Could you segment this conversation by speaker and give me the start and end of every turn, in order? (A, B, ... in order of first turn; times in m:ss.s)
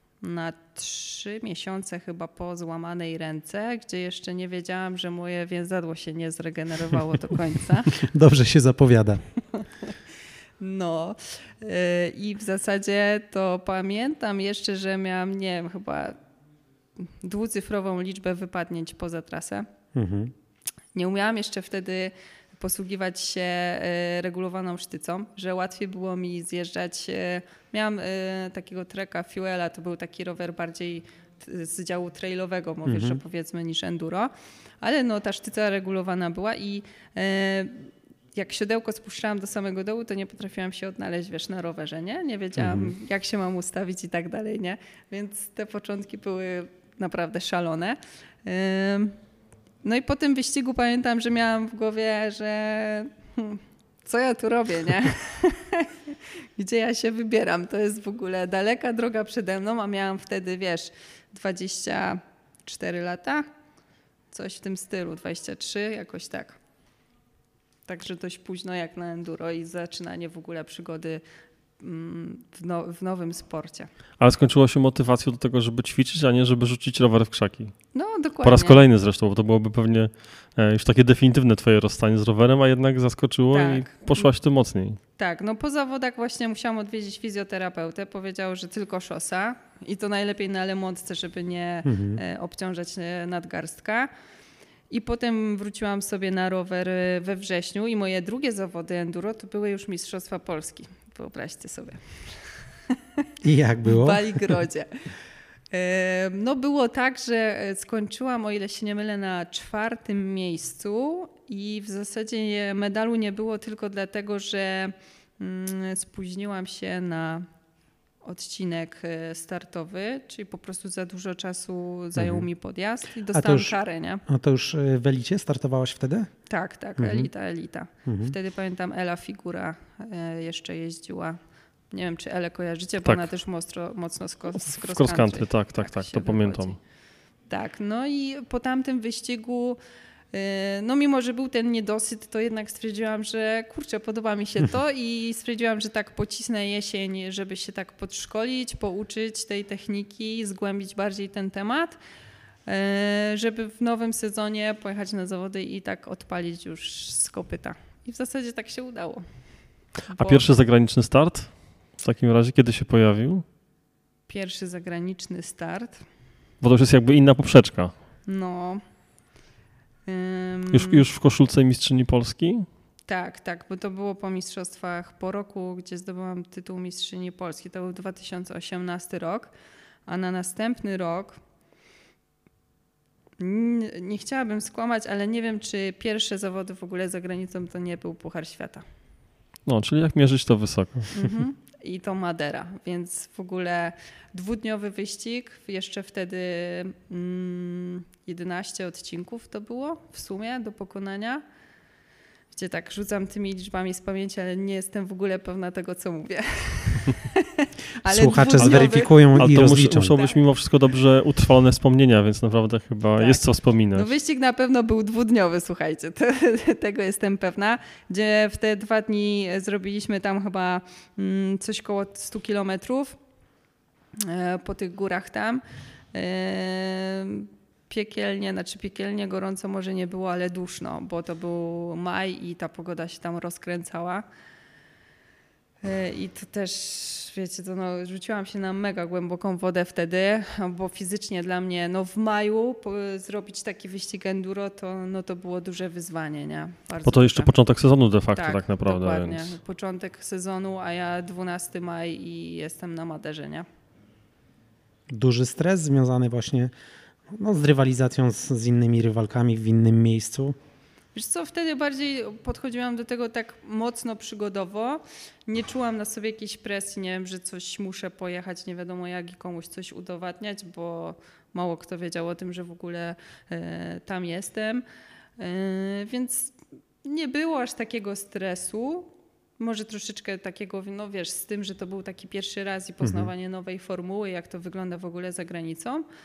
0:00.2-0:08.1 A
0:08.0-0:09.2 B
0:09.6-0:10.0 A
0:10.6-0:16.2 A
0:17.0-0:19.7 A
0:19.9-0:20.3 B
0:20.9-0:34.3 A
0:32.8-0:33.2 B
0:34.8-0:49.2 A
0:42.6-0:42.9 B
0:49.8-1:03.5 A
1:04.3-1:06.6 A
1:07.9-1:11.2 A
1:11.8-1:13.9 A
1:14.2-1:17.7 C
1:17.9-1:18.8 A
1:18.4-1:25.0 C
1:23.5-1:24.3 A
1:25.2-1:34.1 A
1:31.8-1:32.2 B
1:34.9-1:42.0 A
1:42.9-1:43.2 A
1:43.4-1:44.6 B
1:43.8-1:44.9 A
1:45.7-1:57.5 A
1:58.2-2:04.2 A
2:02.1-2:02.5 B
2:03.3-2:06.3 B
2:06.5-2:11.4 A
2:07.0-2:07.3 B
2:08.1-2:08.3 B
2:11.9-2:16.8 A
2:14.7-2:16.8 C
2:17.5-2:19.8 A
2:20.3-2:32.0 A
2:32.6-2:39.2 A
2:40.1-2:40.4 A
2:40.1-2:43.4 C
2:44.3-2:46.0 A
2:46.6-2:47.9 C
2:48.2-2:48.8 A
2:50.1-2:51.0 A
2:50.7-2:52.7 C
2:53.1-2:59.5 A
3:00.1-3:01.4 A
3:03.4-3:08.8 A
3:09.7-3:11.1 C
3:11.1-3:21.4 A
3:22.5-3:29.4 A
3:28.0-3:30.2 B
3:28.6-3:34.1 C
3:33.2-3:43.2 A
3:44.2-3:54.2 A
3:55.8-4:07.5 A
4:07.0-4:09.6 C
4:08.4-4:13.6 A
4:15.1-4:16.7 B
4:17.3-4:20.5 B
4:21.1-4:34.8 A
4:35.4-4:46.0 A
4:43.0-4:43.3 B